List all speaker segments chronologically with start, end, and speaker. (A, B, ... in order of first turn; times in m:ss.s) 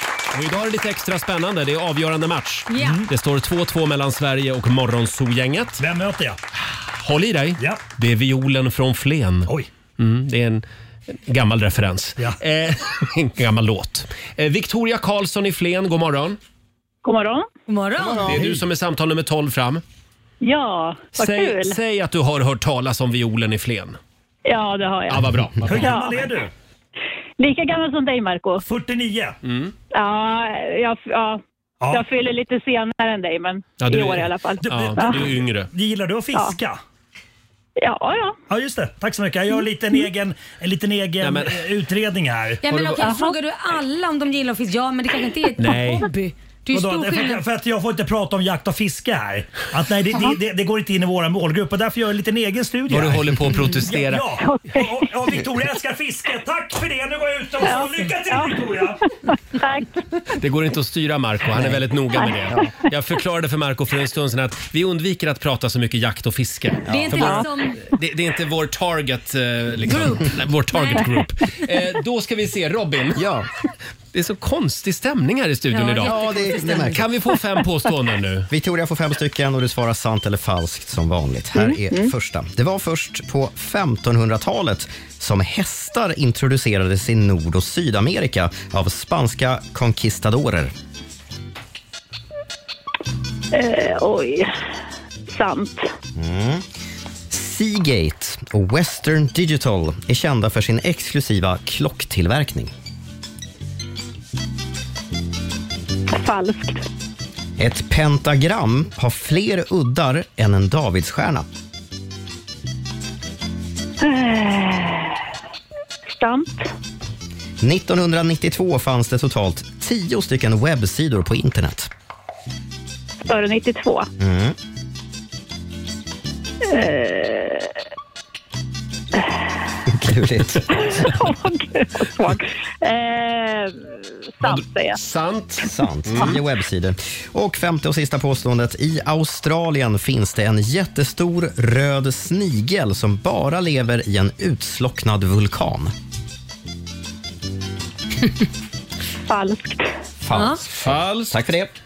0:00.3-0:05.8 A
0:02.7-0:03.0 B
0:02.8-0:03.1 C
0:05.8-0:06.4 C
0:07.0-0:10.6 A
0:11.3-0:16.4 A
0:17.0-0:17.5 D
0:17.7-0:18.3 B
0:18.2-0:19.8 A
0:18.3-0:18.6 E
0:20.4-0:21.8 D
0:21.2-0:24.0 A
0:24.5-0:25.3 D
0:25.1-0:26.0 A
0:25.6-0:26.5 C
0:27.4-0:28.6 D
0:28.6-0:29.4 C
0:29.4-0:29.7 A
0:29.9-0:35.2 D
0:33.8-0:35.7 A
0:34.6-0:36.8 C
0:37.8-0:38.4 D
0:38.5-0:42.6 C
0:41.2-0:41.6 A
0:42.6-0:47.4 B
0:42.7-0:43.1 A
0:43.0-0:43.3 D
0:45.6-0:46.1 A
0:46.7-0:59.0 C
0:52.9-0:54.3 A
0:54.4-0:55.1 D
0:57.6-0:58.6 D
0:59.6-1:00.0 D
1:00.4-1:13.2 A
1:06.9-1:07.3 E
1:06.9-1:07.8 B
1:09.9-1:11.1 B
1:13.2-1:13.5 E
1:14.1-1:16.2 A
1:15.7-1:17.0 B
1:16.0-1:17.1 E
1:16.9-1:18.5 A
1:18.5-1:30.7 E
1:21.6-1:22.1 D
1:33.5-1:34.5 D
1:35.3-1:35.9 D
1:36.2-1:36.6 E
1:37.3-1:42.7 E
1:46.1-1:46.8 D
1:47.6-1:51.5 E
1:54.0-1:55.2 D
1:56.1-1:56.7 D
1:57.6-2:01.9 E
2:03.2-2:04.1 D
2:04.2-2:04.6 E
2:06.7-2:07.8 D
2:09.9-2:11.1 E
2:10.7-2:15.0 D
2:14.4-2:16.4 A
2:15.6-2:25.9 E
2:29.3-2:29.9 D
2:30.2-2:31.7 E
2:30.3-2:30.6 B
2:30.8-2:31.4 A